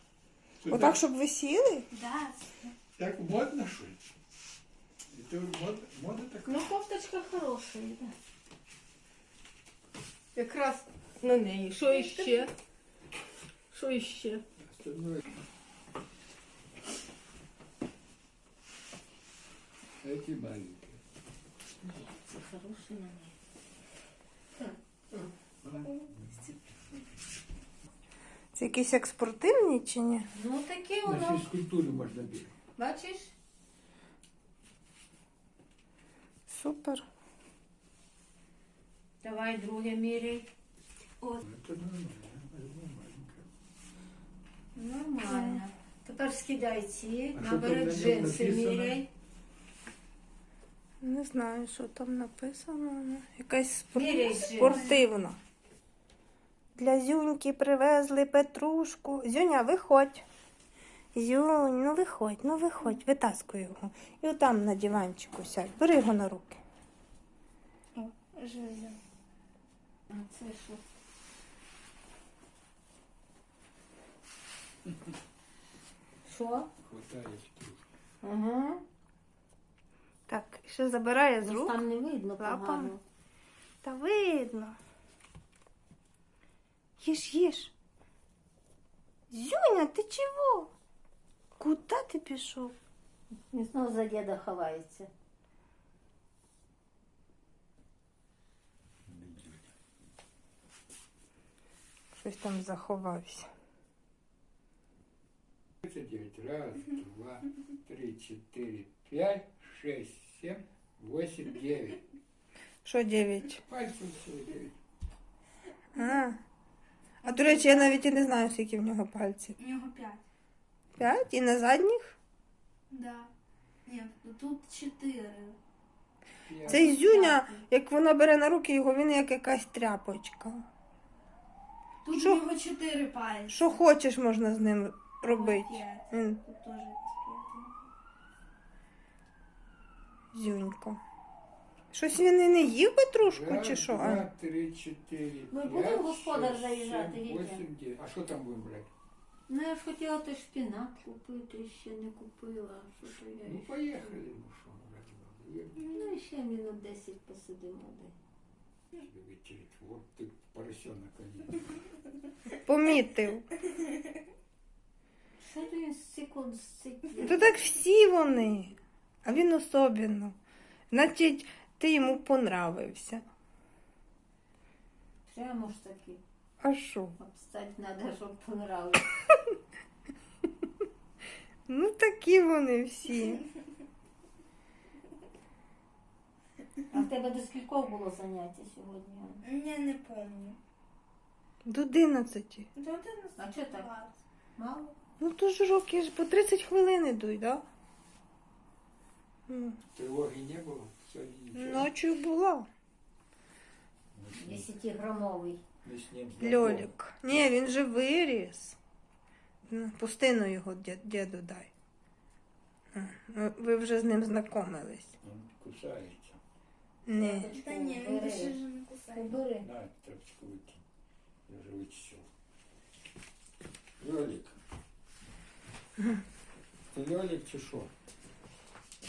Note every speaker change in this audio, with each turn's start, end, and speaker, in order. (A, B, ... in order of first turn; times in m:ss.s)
0:00.6-0:01.0 A
0:00.7-0:01.9 B
0:01.9-0:02.7 C
0:03.0-0:04.0 A
0:05.1-0:06.6 A
0:06.4-0:08.1 D
0:10.3-0:12.5 D
0:12.0-0:12.3 C
0:13.7-0:14.4 D
0:14.6-0:15.2 A
0:20.0-0:21.0 A
0:21.8-0:23.3 D
0:24.6-0:25.3 D
0:25.6-0:26.3 A
0:28.5-0:30.3 B
0:30.3-0:31.5 D
0:31.0-0:32.5 A
0:32.8-0:33.3 D
0:36.5-0:37.0 B
0:39.2-0:40.5 D
0:41.4-0:43.4 A
0:44.7-0:49.1 D
0:45.3-0:45.6 B
0:47.3-0:49.0 A
0:51.0-0:55.4 B
0:53.9-0:54.9 D
0:54.4-0:54.9 C
0:56.8-1:00.2 B
1:01.1-1:06.6 B
1:07.9-1:09.0 C
1:10.1-1:10.8 D
1:16.2-1:16.7 D
1:16.8-1:17.8 A
1:18.2-1:18.8 D
1:20.3-1:21.8 B
1:21.4-1:23.0 D
1:22.4-1:22.9 B
1:23.8-1:24.8 B
1:27.0-1:27.7 B
1:29.3-1:30.7 B
1:31.6-1:32.7 B
1:33.5-1:35.1 D
1:39.1-1:39.7 A
1:42.1-1:43.5 B
1:45.8-1:52.0 A
1:52.8-1:53.6 B
1:53.7-1:54.7 A
1:55.9-1:56.4 B
1:57.2-1:59.6 B
1:57.3-1:57.9 C
1:59.6-2:00.2 C
2:01.0-2:02.1 B
2:02.9-2:03.3 C
2:03.8-2:05.6 C
2:06.4-2:06.9 A
2:06.6-2:10.6 B
2:06.7-2:07.5 D
2:12.0-2:13.6 C
2:12.1-2:12.4 B
2:13.5-2:16.4 B
2:15.2-2:17.8 C
2:20.3-2:21.0 B
2:21.9-2:24.3 B
2:23.2-2:28.9 A
2:25.5-2:27.6 D
2:29.5-2:34.1 D
2:33.3-2:36.0 A
2:35.8-2:38.1 D
2:38.9-2:41.7 A
2:42.6-2:43.5 B
2:45.4-2:47.5 D
2:47.2-2:50.4 B
2:50.9-2:53.2 B
2:55.2-2:56.2 D
2:56.6-2:57.1 B
2:57.2-2:59.2 D
3:01.7-3:03.4 B
3:06.9-3:09.4 D
3:09.4-3:10.6 C
3:11.6-3:12.7 B
3:12.7-3:14.1 C
3:13.4-3:13.9 D
3:14.6-3:15.0 D
3:15.2-3:17.6 B
3:19.5-3:19.8 B
3:19.9-3:21.9 A
3:21.5-3:22.7 B
3:24.1-3:24.7 A
3:24.3-3:25.6 D
3:25.8-3:27.4 A
3:26.4-3:28.8 B
3:29.7-3:31.7 B
3:32.9-3:35.2 B
3:35.2-3:36.4 A
3:37.0-3:37.5 B
3:37.1-3:39.7 D
3:37.4-3:39.4 C
3:39.6-3:40.8 A
3:41.5-3:42.3 A
3:44.0-3:44.6 A
3:46.9-3:47.9 A